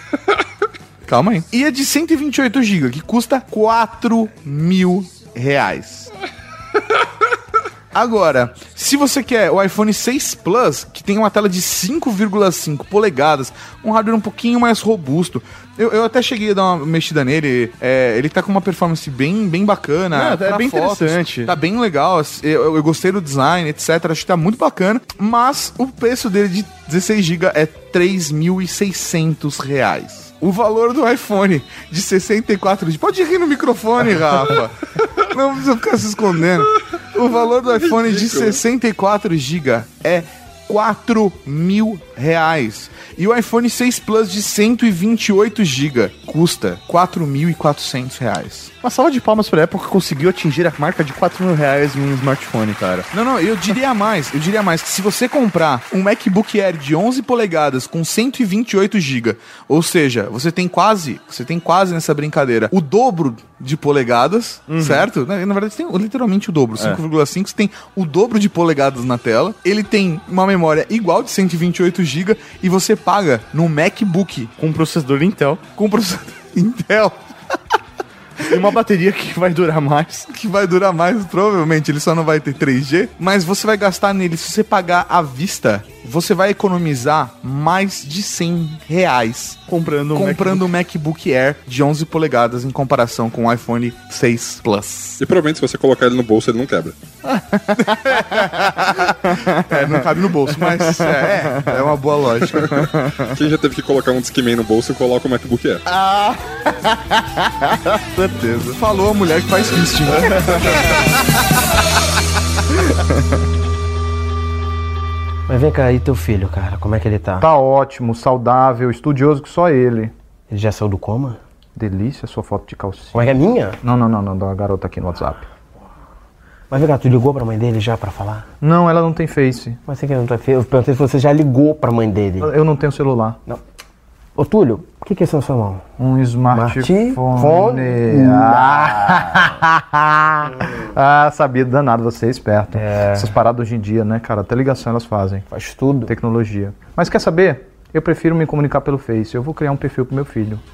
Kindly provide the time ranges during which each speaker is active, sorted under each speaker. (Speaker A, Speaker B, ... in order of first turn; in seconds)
Speaker A: 1.1-6.1, 7.9-48.7, 53.1-74.5, 75.8-77.2, 80.3-89.6, 90.1-95.2, 98.1-102.8, 108.8-110.9
Speaker B: 20.1-21.5, 48.8-53.1, 64.7-65.1, 74.6-75.6, 78.4-80.3, 89.7-90.7, 97.2-102.0, 102.5-103.3, 105.8-108.8, 112.8-113.2
Speaker C: 37.9-38.6, 95.2-96.9, 103.2-105.8
Speaker D: 115.5-117.4, 120.5-121.4, 123.1-123.8, 126.7-128.5, 129.9-132.5, 134.4-135.8, 136.5-139.2, 142.8-143.3, 145.5-146.1
Speaker E: 117.4-120.1, 121.8-123.2, 123.8-125.5, 128.6-129.8, 132.4-133.4, 136.0-145.4, 146.1-150.6